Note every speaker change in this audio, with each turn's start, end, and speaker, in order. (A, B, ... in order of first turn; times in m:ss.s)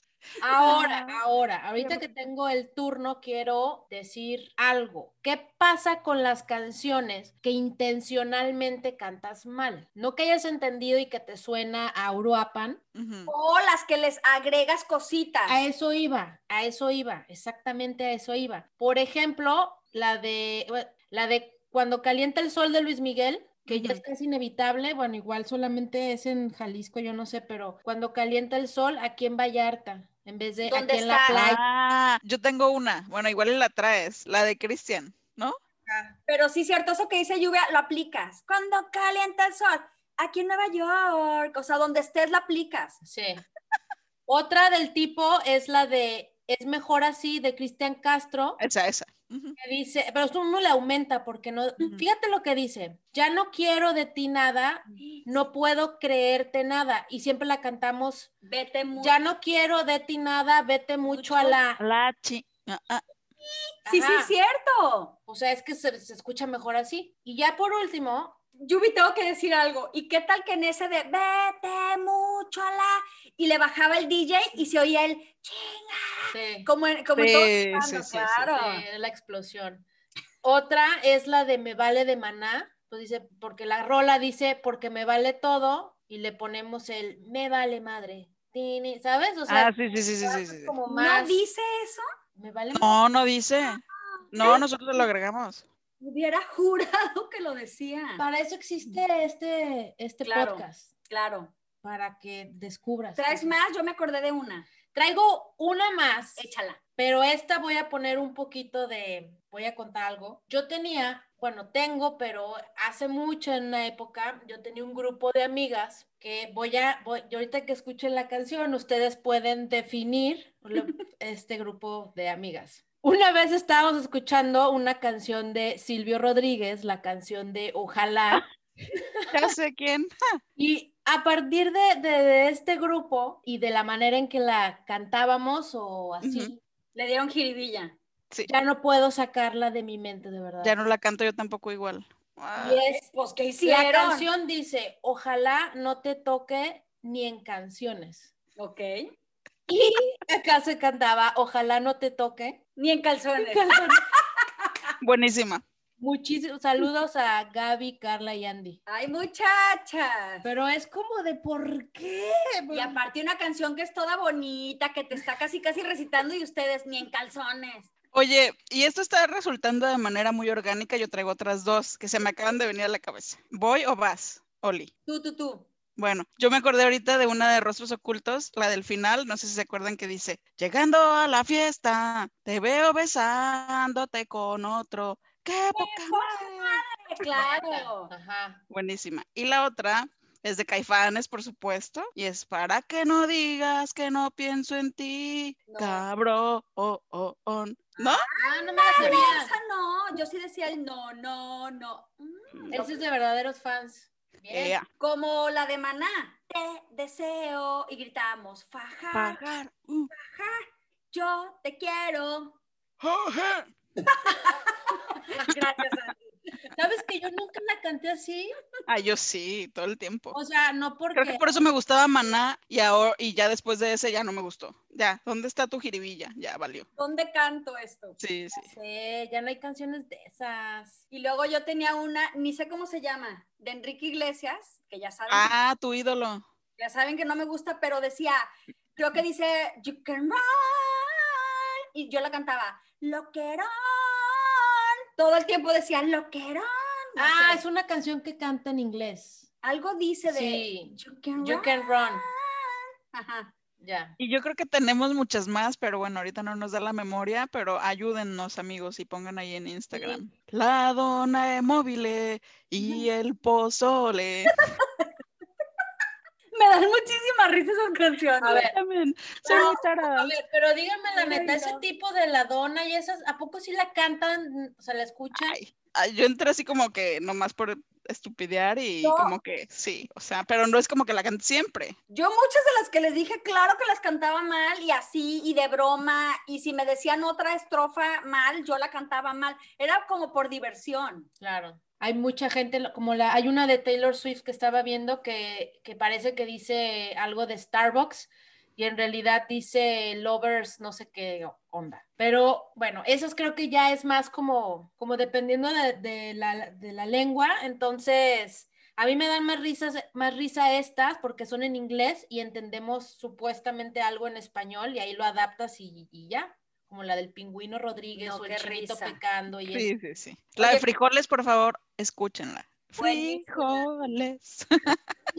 0:00.4-0:12.8 A
0:00.6-0:01.2 B
0:13.0-0:13.3 C
0:13.3-0:15.6 B
0:15.5-0:31.6 A
0:23.7-0:24.0 C
0:30.7-0:31.4 B
0:31.3-0:35.6 C
0:35.9-0:36.2 A
0:36.3-0:43.0 B
0:43.0-0:43.4 A
0:44.3-0:48.6 A
0:48.6-0:49.6 C
0:49.6-0:58.3 A
0:51.8-0:52.0 C
0:58.4-0:59.2 B
0:59.0-1:01.8 A
1:01.0-1:01.6 B
1:01.8-1:03.0 C
1:03.4-1:05.2 B
1:03.9-1:04.3 A
1:05.3-1:08.4 A
1:08.6-1:18.8 B
1:16.3-1:16.7 A
1:17.2-1:18.5 C
1:18.5-1:19.8 A
1:20.4-1:31.4 A
1:29.5-1:30.8 C
1:30.9-1:32.0 B
1:32.4-1:33.0 A
1:32.8-1:35.6 C
1:34.4-1:34.6 B
1:36.0-1:38.2 B
1:38.2-1:40.9 A
1:40.2-1:41.5 B
1:41.8-1:43.6 A
1:43.2-1:44.7 B
1:44.9-2:09.3 A
1:46.4-1:46.8 B
2:09.3-2:10.1 C
2:10.6-2:16.6 A
2:16.2-2:16.5 C
2:17.0-2:18.0 B
2:18.5-2:20.8 A
2:20.6-2:22.8 C
2:22.6-2:23.1 A
2:22.9-2:24.3 B
2:23.6-2:28.3 A
2:28.6-2:29.0 B
2:29.7-2:32.6 A
2:32.8-2:34.8 B
2:33.4-2:34.0 A
2:35.0-2:35.6 C
2:36.0-2:38.8 A
2:38.9-2:40.5 B
2:40.4-2:43.0 A
2:42.7-2:47.9 B
2:48.1-2:54.9 C
2:55.1-2:55.7 B
2:56.0-3:06.8 C
3:05.8-3:08.1 B
3:07.3-3:08.6 A
3:08.7-3:18.3 C
3:15.7-3:16.0 B
3:18.0-3:23.0 B
3:18.4-3:19.5 A
3:19.0-3:19.4 C
3:22.7-3:24.8 A
3:24.5-3:24.8 C
3:25.0-3:29.4 B
3:29.1-3:30.1 C
3:30.2-3:32.6 B
3:33.0-3:33.7 C
3:34.2-3:34.5 B
3:35.3-3:38.6 A
3:38.9-3:40.4 C
3:40.3-3:41.5 A
3:41.1-3:46.9 C
3:47.0-3:48.2 B
3:48.2-3:48.7 C
3:48.5-3:51.0 A
3:51.1-3:55.5 B
3:55.3-3:56.4 C
3:56.8-4:07.6 B
4:07.2-4:09.5 A
4:09.6-4:13.5 B
4:10.3-4:12.3 A
4:13.8-4:14.2 A
4:14.2-4:24.6 C
4:19.9-4:20.2 B
4:24.6-4:25.1 B
4:26.5-4:28.6 B
4:28.4-4:28.7 A
4:28.5-4:30.3 C
4:29.4-4:35.6 A
4:31.1-4:31.8 B
4:35.3-4:42.0 C
4:39.0-4:39.4 B
4:42.1-4:51.3 B
4:51.4-5:19.9 A
5:18.2-5:19.2 B
5:19.7-5:25.0 C
5:20.6-5:20.9 B
5:23.0-5:23.9 B